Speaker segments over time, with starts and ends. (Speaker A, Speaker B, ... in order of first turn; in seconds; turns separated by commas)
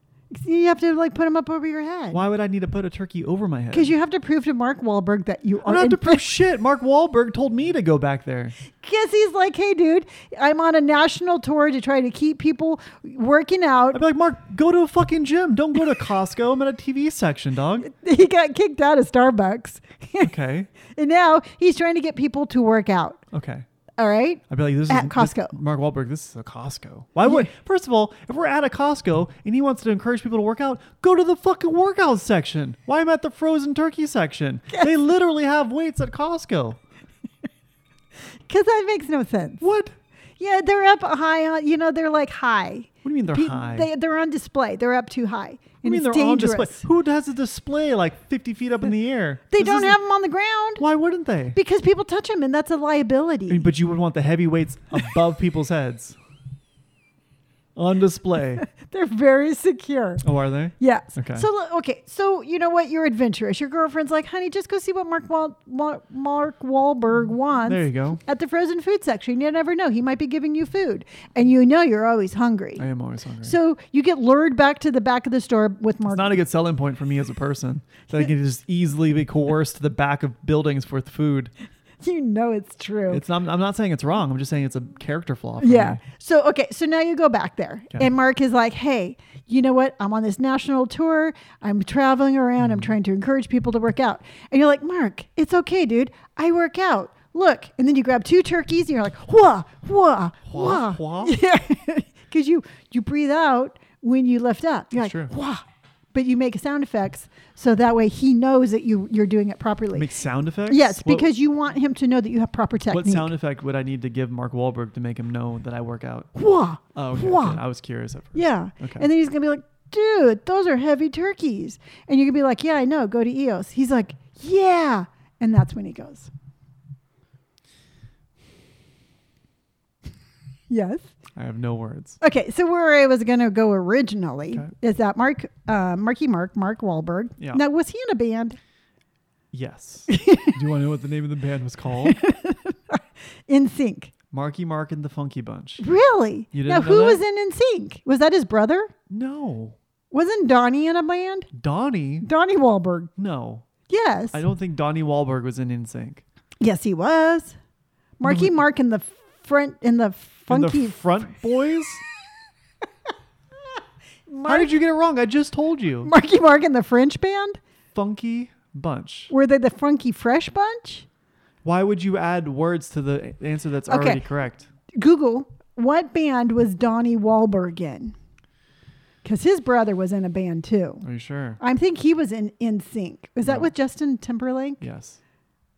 Speaker A: 0.3-2.2, Speaker B: 2.1-3.9, Speaker A: 3.7-6.3, Speaker B: 5.6-8.6, Speaker A: 8.8-14.0, Speaker B: 13.9-17.9, Speaker A: 17.8-20.3, Speaker B: 20.2-20.7, Speaker A: 20.9-23.2, Speaker B: 23.3-23.7, Speaker A: 24.0-25.6, Speaker B: 24.5-36.8, Speaker A: 38.5-39.7, Speaker B: 39.6-39.9, Speaker A: 40.4-46.9, Speaker B: 43.0-43.9, Speaker B: 45.8-50.0, Speaker A: 49.5-50.9, Speaker B: 50.8-51.6, Speaker A: 51.5-53.7, Speaker B: 53.5-56.2, Speaker B: 57.8-58.7, Speaker A: 58.7-60.2, Speaker B: 60.2-61.5, Speaker A: 60.8-72.9, Speaker B: 67.7-68.2, Speaker B: 72.8-73.6, Speaker A: 73.4-76.4, Speaker B: 76.1-81.5, Speaker A: 82.0-83.2, Speaker B: 83.1-86.0, Speaker A: 85.6-110.1, Speaker B: 92.6-92.9, Speaker B: 100.5-101.4, Speaker B: 105.0-105.3, Speaker B: 109.9-111.3, Speaker A: 110.7-113.3, Speaker B: 112.9-116.3, Speaker A: 116.3-117.6, Speaker B: 116.9-119.1, Speaker A: 118.3-126.3, Speaker A: 130.7-131.1, Speaker B: 131.4-132.2, Speaker A: 132.2-138.6, Speaker B: 139.5-142.2, Speaker A: 140.1-140.6, Speaker A: 142.0-144.1, Speaker B: 144.3-145.8, Speaker A: 145.8-148.9, Speaker B: 146.5-147.2, Speaker B: 149.1-149.8, Speaker A: 150.1-151.5, Speaker B: 151.5-152.3, Speaker A: 152.2-153.1, Speaker B: 153.2-153.7, Speaker A: 153.9-154.4, Speaker B: 154.3-156.2, Speaker A: 156.6-157.6, Speaker A: 158.2-161.3, Speaker B: 158.2-158.6, Speaker B: 160.5-162.0, Speaker A: 164.3-164.7, Speaker B: 164.5-166.1, Speaker A: 166.0-167.6, Speaker B: 167.9-169.3, Speaker A: 169.3-171.1, Speaker B: 171.6-174.7, Speaker A: 173.9-174.2, Speaker A: 174.9-178.2, Speaker A: 179.2-181.0, Speaker B: 181.0-181.6, Speaker A: 181.6-184.8, Speaker B: 183.4-183.7, Speaker B: 184.8-185.2